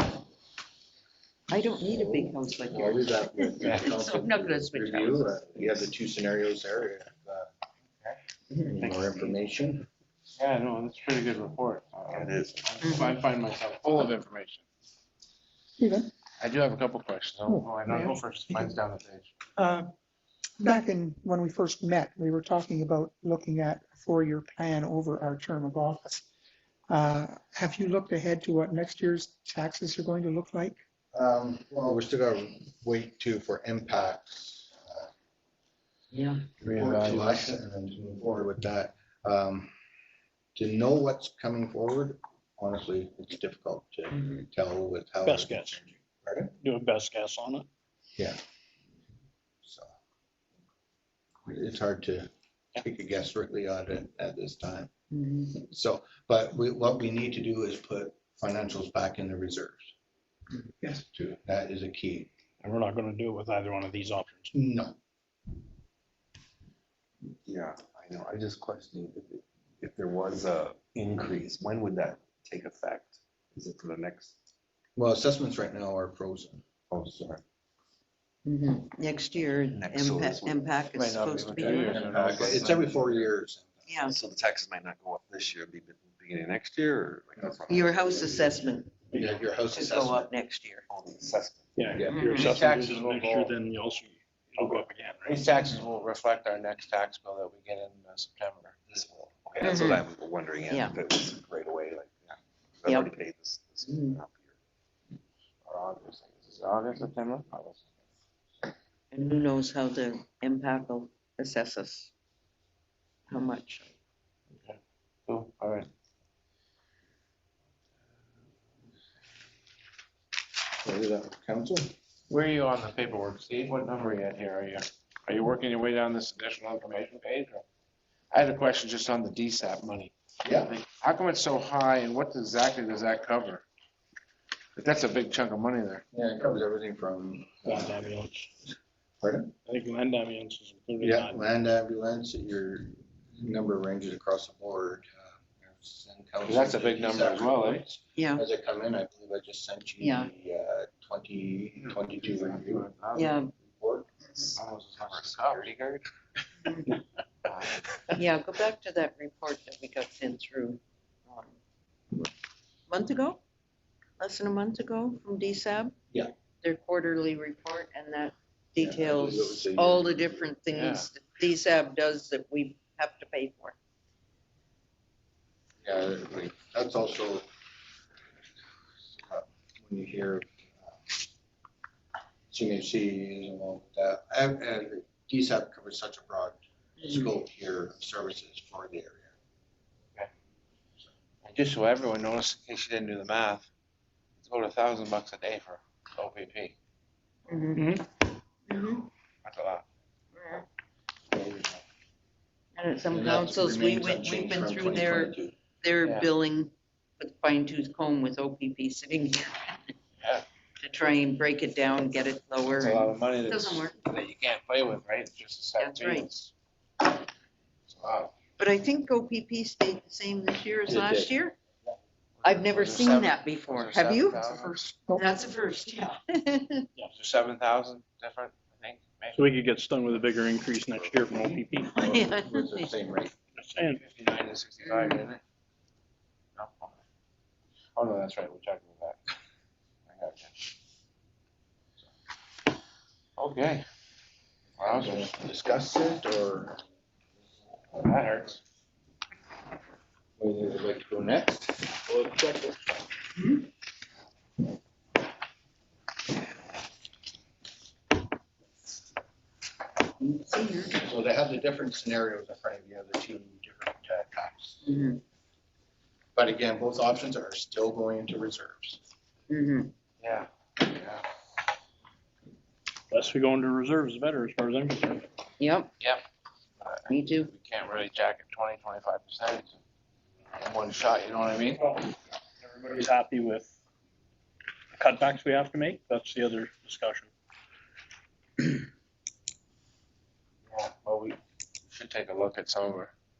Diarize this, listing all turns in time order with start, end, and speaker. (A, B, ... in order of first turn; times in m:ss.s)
0:01.5-0:05.8 A
0:01.9-0:07.5 B
0:03.6-0:03.9 C
0:08.5-0:08.8 A
0:08.7-0:09.9 B
0:08.9-0:09.4 D
0:10.4-0:14.6 C
0:12.1-0:12.7 E
0:12.8-0:13.2 A
0:15.8-0:16.1 F
0:16.4-0:19.3 C
0:19.6-0:19.9 F
0:20.6-0:26.2 F
0:26.9-0:30.8 F
0:31.1-0:35.1 B
0:36.1-0:36.4 A
0:36.6-0:37.6 C
0:36.7-0:39.7 B
0:40.6-0:46.5 B
0:45.2-0:45.8 D
0:46.6-0:47.7 D
0:49.6-0:49.9 B
0:51.5-0:54.9 B
0:55.1-0:55.6 A
0:55.6-0:59.9 B
1:00.8-1:02.3 B
1:02.6-1:04.6 D
1:04.5-1:05.0 B
1:07.5-1:14.3 E
1:15.0-1:16.6 B
1:16.9-1:17.4 E
1:18.4-1:22.3 A
1:19.7-1:20.8 E
1:20.9-1:23.2 C
1:21.6-1:23.8 B
1:23.9-1:24.2 A
1:24.1-1:28.4 E
1:27.7-1:29.0 A
1:29.1-1:30.3 B
1:29.7-1:30.9 A
1:30.9-1:32.0 E
1:31.8-1:35.5 D
1:32.0-1:32.2 B
1:32.1-1:32.5 A
1:32.3-1:33.5 C
1:35.2-1:38.8 C
1:38.9-1:44.5 E
1:39.6-1:40.0 A
1:40.7-1:41.0 A
1:43.9-1:44.2 A
1:45.6-1:47.8 C
1:49.1-1:52.1 A
1:53.3-1:53.9 A
1:54.6-1:55.9 C
2:00.8-2:01.9 B
2:02.3-2:07.6 C
2:08.3-2:13.6 C
2:10.4-2:10.7 B
2:14.8-2:16.0 C
2:16.1-2:18.0 B
2:17.6-2:18.7 D
2:19.2-2:19.5 B
2:19.7-2:21.4 D
2:21.0-2:34.1 B
2:26.4-2:27.8 C
2:28.2-2:28.4 A
2:30.0-2:30.3 A
2:31.8-2:33.3 C
2:33.1-2:33.5 A
2:34.6-2:36.0 C
2:36.6-2:36.9 A
2:37.5-2:37.8 C
2:38.1-2:41.6 A
2:42.9-2:43.4 A
2:44.2-2:45.9 A
2:46.6-2:53.8 A
2:48.8-2:50.5 B
2:50.7-2:51.1 C
2:55.8-2:57.5 B
2:59.1-3:01.0 B
3:02.5-3:09.3 B
3:07.0-3:07.3 A
3:11.4-3:13.7 C
3:14.4-3:16.7 C
3:17.5-3:17.8 A
3:17.8-3:18.0 D
3:18.7-3:19.1 A
3:19.4-3:19.8 C
3:20.4-3:20.6 A
3:21.3-3:21.8 B
3:22.8-3:30.0 A
3:23.1-3:25.5 B
3:26.0-3:26.3 C
3:30.8-3:34.0 A
3:32.8-3:36.5 C
3:35.8-3:36.3 A
3:37.9-3:38.3 C
3:38.6-3:41.6 A
3:40.9-3:41.3 B
3:42.4-3:44.8 C
3:42.4-3:44.4 A
3:45.2-3:46.8 A
3:47.1-3:49.5 C
3:49.3-3:52.0 D
3:51.0-3:53.3 B
3:52.0-3:52.9 A
3:53.6-3:54.0 D
3:53.8-3:55.4 C
3:54.9-3:55.3 A
3:56.6-3:57.0 C
3:58.0-3:59.2 C
4:00.1-4:00.5 C
4:03.4-4:03.8 C
4:04.8-4:05.3 C
4:04.8-4:06.8 B
4:07.9-4:08.6 C
4:10.4-4:12.9 B
4:20.2-4:21.0 A
4:20.9-4:24.8 B
4:24.8-4:25.2 A
4:26.4-4:29.0 B
4:29.5-4:29.9 A
4:30.2-4:31.2 C
4:33.1-4:35.3 D
4:35.6-4:35.9 A
4:36.8-4:39.8 C
4:37.1-4:37.5 A
4:40.6-4:41.9 C
4:42.6-4:43.7 D
4:45.0-4:47.3 D
4:50.7-4:51.4 C
4:51.9-4:53.1 C